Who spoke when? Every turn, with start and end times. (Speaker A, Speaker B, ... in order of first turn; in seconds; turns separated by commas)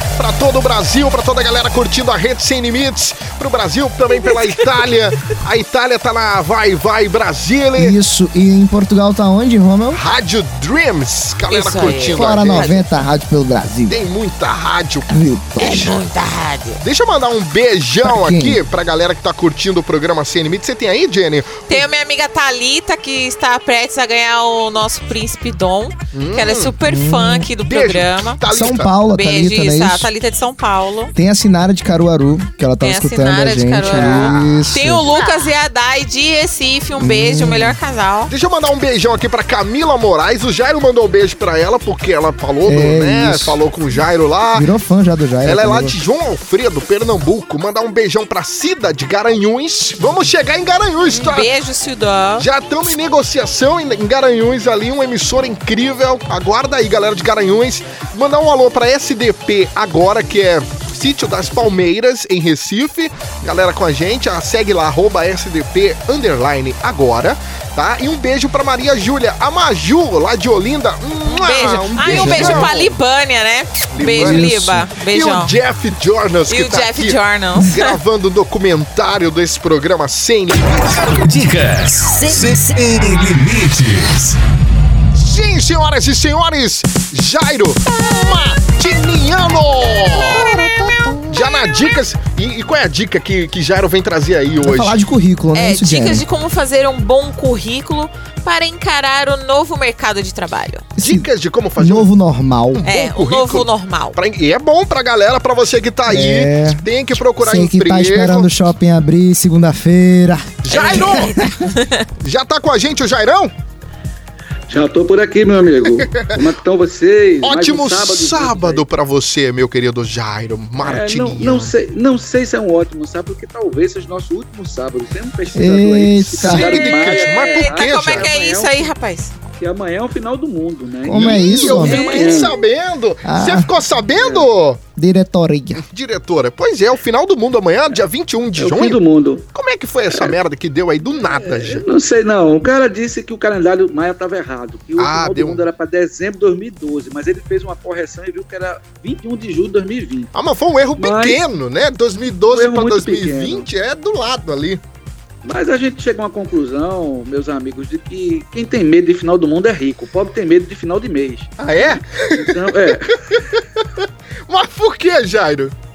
Speaker A: 0.2-8.0, Speaker B: 4.2-4.7, Speaker C: 7.8-10.0, Speaker A: 9.9-12.8, Speaker B: 11.5-12.9, Speaker C: 12.1-14.0, Speaker A: 13.9-15.1, Speaker C: 15.1-15.9, Speaker B: 15.6-16.8, Speaker A: 16.8-21.8, Speaker C: 18.0-18.6, Speaker B: 21.7-28.4, Speaker A: 26.1-26.7, Speaker C: 26.8-27.5, Speaker A: 27.6-28.9, Speaker C: 28.4-30.1, Speaker B: 29.1-31.1, Speaker C: 31.1-35.1, Speaker B: 32.8-38.3, Speaker A: 33.8-35.2, Speaker C: 37.0-37.8, Speaker A: 38.3-44.7, Speaker C: 42.6-43.6, Speaker C: 44.5-46.0, Speaker A: 45.4-51.5, Speaker B: 51.1-52.5, Speaker A: 52.4-72.9, Speaker B: 71.2-75.5, Speaker C: 72.0-72.7, Speaker A: 73.9-81.2, Speaker C: 74.1-74.8, Speaker B: 76.5-78.0, Speaker D: 81.1-84.4, Speaker A: 85.1-90.5, Speaker A: 91.3-95.0, Speaker C: 94.6-96.2, Speaker B: 95.5-100.8, Speaker C: 101.0-102.9, Speaker A: 101.0-102.1, Speaker A: 102.7-108.5, Speaker B: 102.8-104.2, Speaker C: 106.1-106.8, Speaker C: 107.4-110.6, Speaker A: 110.6-111.4, Speaker B: 110.7-112.0, Speaker C: 111.2-111.4, Speaker A: 112.2-113.5, Speaker E: 114.7-118.8, Speaker A: 116.0-116.4, Speaker A: 117.4-121.7, Speaker E: 120.8-128.9, Speaker C: 125.5-126.8, Speaker A: 126.4-128.3, Speaker B: 126.4-129.3, Speaker E: 129.6-132.5, Speaker C: 131.1-132.2, Speaker A: 131.1-134.8, Speaker B: 131.6-132.5, Speaker C: 133.2-133.7, Speaker E: 134.1-134.5, Speaker C: 134.9-135.8, Speaker A: 135.8-139.0, Speaker E: 138.6-139.4, Speaker A: 139.5-141.9, Speaker E: 140.1-140.4, Speaker E: 141.2-150.3, Speaker A: 145.0-145.6, Speaker A: 150.3-154.8, Speaker E: 151.0-151.4, Speaker E: 152.5-153.7, Speaker E: 155.4-163.2, Speaker A: 161.6-162.9, Speaker A: 164.5-165.7